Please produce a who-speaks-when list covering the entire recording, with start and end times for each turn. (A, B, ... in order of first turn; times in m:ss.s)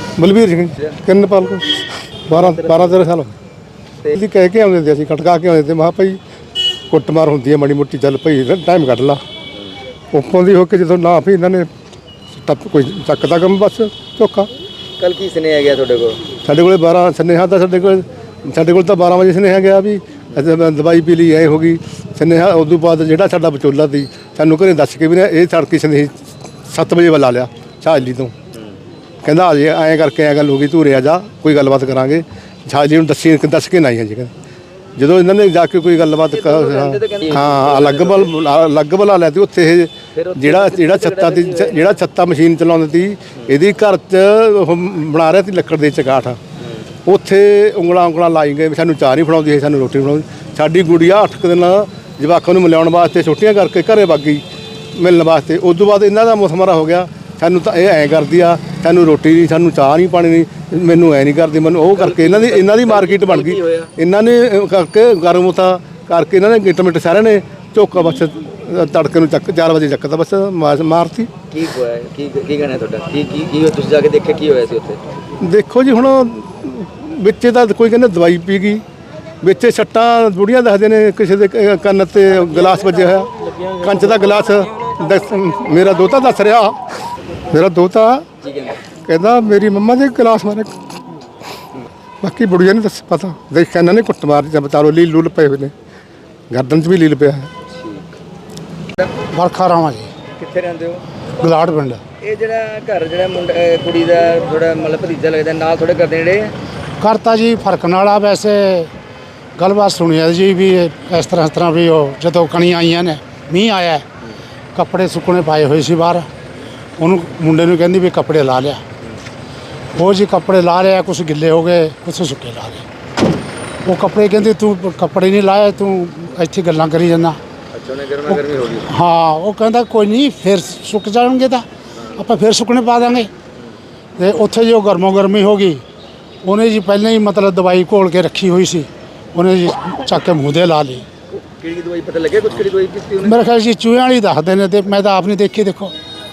0:00.2-0:03.4 A
0:02.3-0:03.0 B
0:04.1-0:06.2 A
0:06.9-0:09.2 A
0:10.1-0:11.7 A
0:12.4-0:14.5 A
0:15.0-0:16.2 B
0:16.4-0:26.2 A
0:26.7-0:28.3 A
0:29.2-0:34.3 A
0:35.0-0:46.4 A
0:36.3-0:38.3 B
0:40.1-0:42.0 B
0:47.1-0:54.4 A
0:55.0-1:11.3 A
1:01.9-1:03.9 B
1:11.5-1:15.0 B
1:15.4-1:18.8 A
1:19.4-1:26.8 A
1:27.5-1:28.3 A
1:28.4-1:28.8 B
1:29.0-1:30.7 A
1:32.2-1:35.7 A
1:36.5-1:37.5 A
1:37.7-1:38.1 B
1:39.3-1:40.1 C
1:40.4-1:41.0 B
1:41.4-1:42.0 C
1:42.2-1:46.5 B
1:47.0-1:48.9 C
1:49.6-1:54.0 C
1:54.8-1:56.3 C
1:57.0-1:58.8 C
2:00.0-2:02.9 C
2:03.8-2:07.4 C
2:07.7-2:08.9 B
2:08.3-2:11.6 C
2:12.0-2:12.2 B
2:12.2-2:13.3 C
2:14.2-2:15.8 C
2:16.4-2:21.0 C
2:21.3-2:23.4 B
2:23.2-2:25.9 C